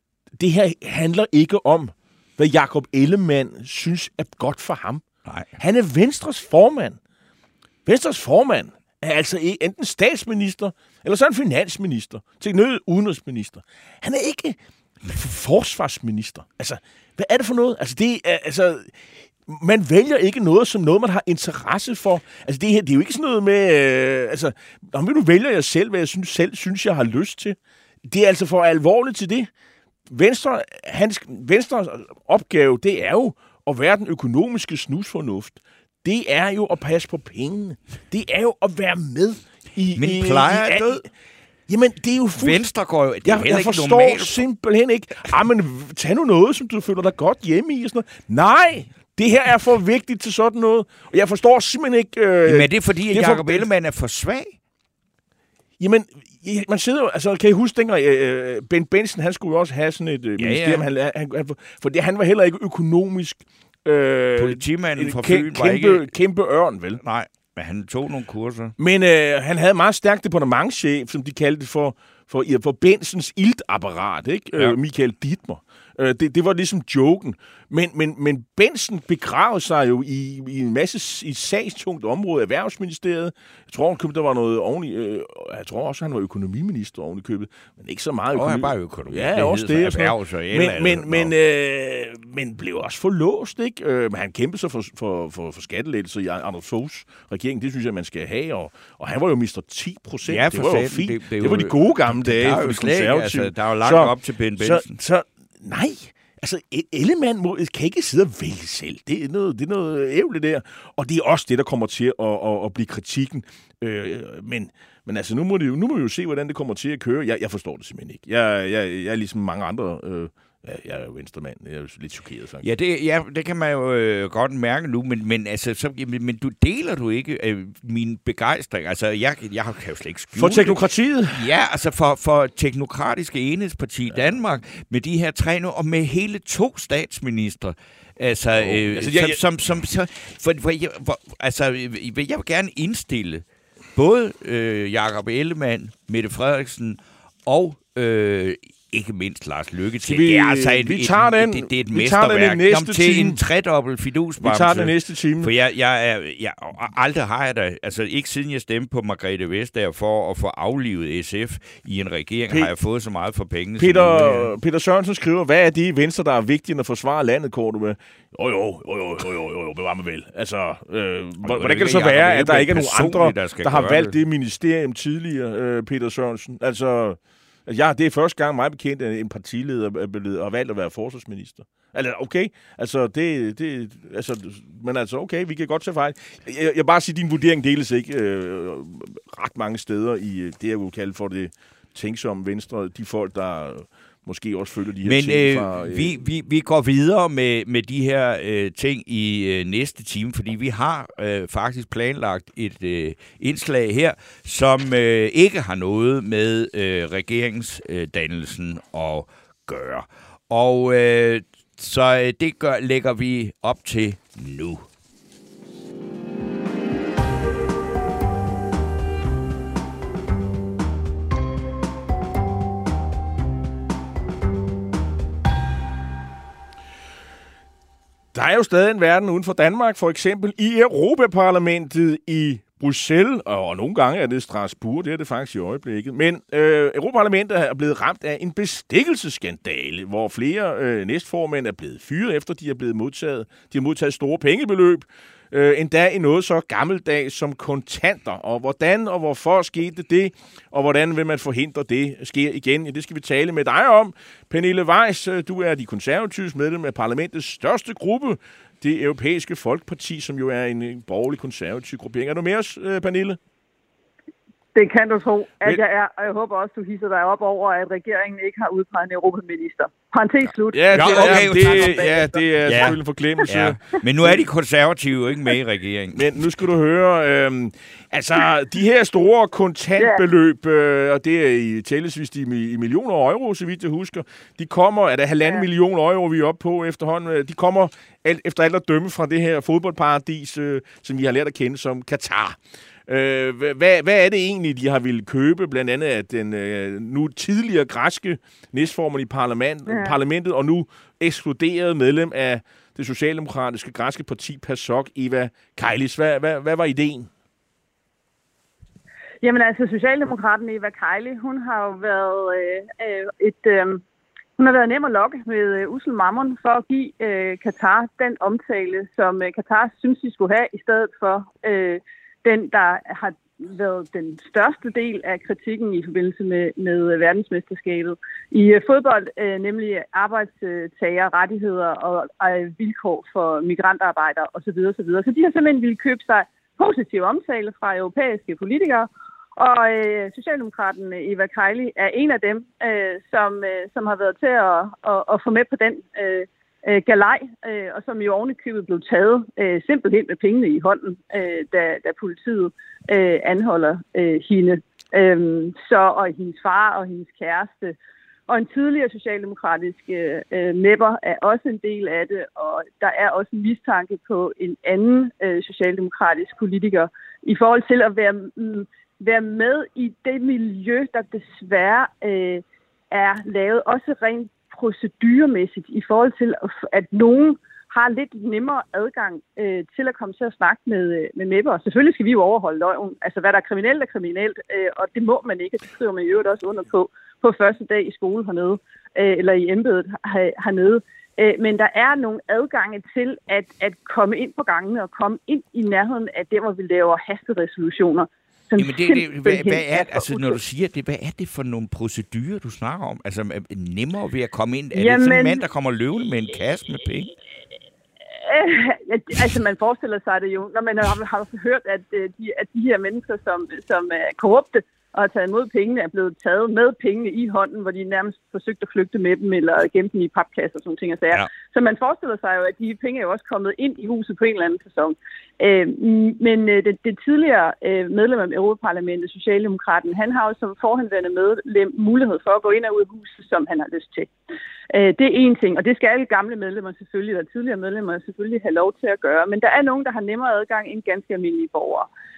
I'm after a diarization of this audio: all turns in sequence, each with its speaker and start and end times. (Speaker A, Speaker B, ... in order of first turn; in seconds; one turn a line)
Speaker A: 0.4-5.0
Speaker A: 5.6-7.0
Speaker A: 7.8-29.5
Speaker A: 30.1-41.0
Speaker B: 39.9-41.0
Speaker A: 41.7-42.6
Speaker B: 42.4-44.4
Speaker A: 43.2-53.7
Speaker B: 52.5-54.5
Speaker A: 55.8-67.0
Speaker B: 60.4-60.9
Speaker B: 64.3-66.0
Speaker B: 67.0-68.7
Speaker A: 68.8-122.7
Speaker B: 88.3-91.3
Speaker B: 100.3-105.0
Speaker B: 122.6-130.8
Speaker A: 130.3-131.5
Speaker B: 131.3-143.4
Speaker A: 138.6-139.4
Speaker B: 143.9-164.5
Speaker A: 150.0-153.4
Speaker A: 154.4-155.5
Speaker A: 163.8-196.2
Speaker B: 171.4-174.1
Speaker B: 195.0-214.8
Speaker A: 228.3-263.4
Speaker C: 264.7-272.5
Speaker A: 270.7-274.4
Speaker B: 270.9-276.4
Speaker A: 276.1-307.3
Speaker C: 280.0-280.2
Speaker C: 299.9-300.2
Speaker C: 309.4-314.0
Speaker C: 314.6-357.9
Speaker C: 358.5-400.6
Speaker B: 398.8-407.3
Speaker C: 404.9-405.6
Speaker C: 408.4-434.3
Speaker C: 434.9-442.1